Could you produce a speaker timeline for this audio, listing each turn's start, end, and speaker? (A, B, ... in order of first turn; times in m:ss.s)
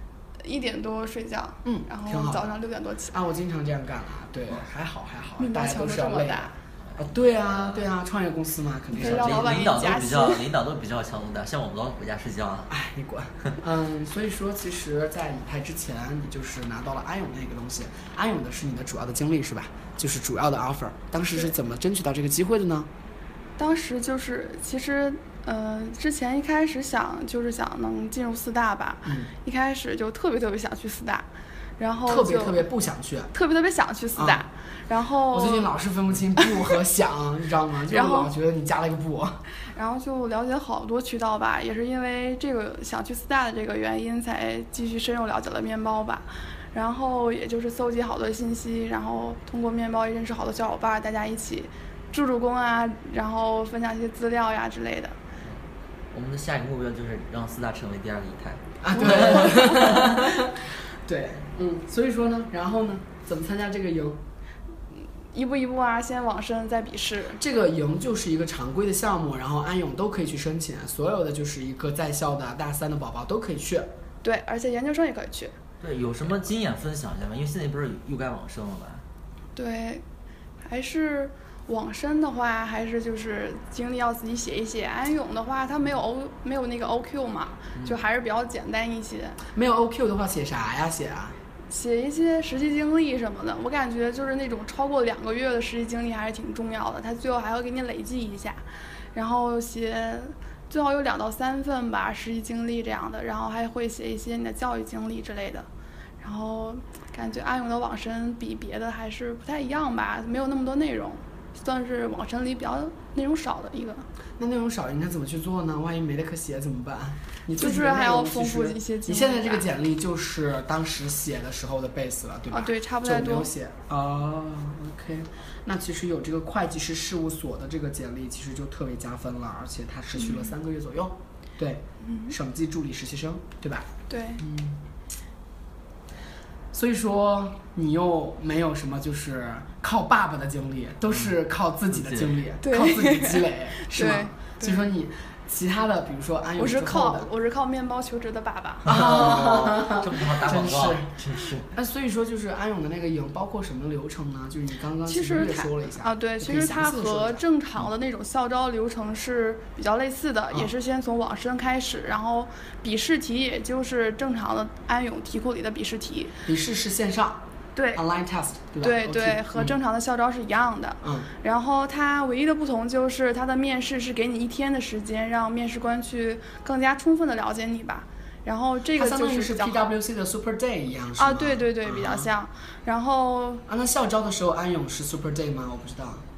0:00.4-0:03.2 A
0:01.6-0:02.6 B
0:03.1-0:09.7 B
0:05.4-0:06.5 A
0:06.9-0:07.9 C
0:09.0-0:10.5 A
0:09.0-0:12.7 C
0:12.7-0:22.9 B
0:23.6-0:31.3 A
0:29.0-0:29.3 B
0:31.8-0:32.6 A
0:32.1-0:33.3 B
0:33.3-0:35.7 A
0:34.2-0:34.4 B
0:35.3-0:39.4 B
0:37.9-0:38.3 A
0:39.7-0:55.2 A
0:55.4-1:00.2 C
0:58.8-1:04.2 B
0:59.0-0:59.8 A
1:05.3-1:07.4 A
1:07.4-1:13.9 B
1:14.2-1:15.6 A
1:15.8-1:19.0 C
1:19.6-1:20.0 A
1:20.6-1:29.4 A
1:29.5-1:31.4 B
1:31.7-1:45.7 A
1:46.2-1:54.1 A
1:54.4-2:14.8 B
1:57.6-1:59.7 A
2:02.5-2:03.5 A
2:10.2-2:10.5 A
2:12.0-2:12.3 A
2:14.1-2:14.4 A
2:16.7-2:27.3 B
2:21.1-2:21.4 C
2:21.9-2:22.4 C
2:22.6-2:24.8 A
2:26.6-2:29.5 A
2:28.8-2:31.7 C
2:28.9-2:31.1 B
2:31.7-2:37.4 B
2:35.1-2:46.3 A
2:46.4-2:47.4 B
2:47.8-2:48.0 A
2:48.0-2:49.8 B
2:48.8-2:59.9 A
2:51.0-2:51.3 B
2:59.0-3:02.3 B
3:01.2-3:03.6 A
3:03.7-3:06.2 B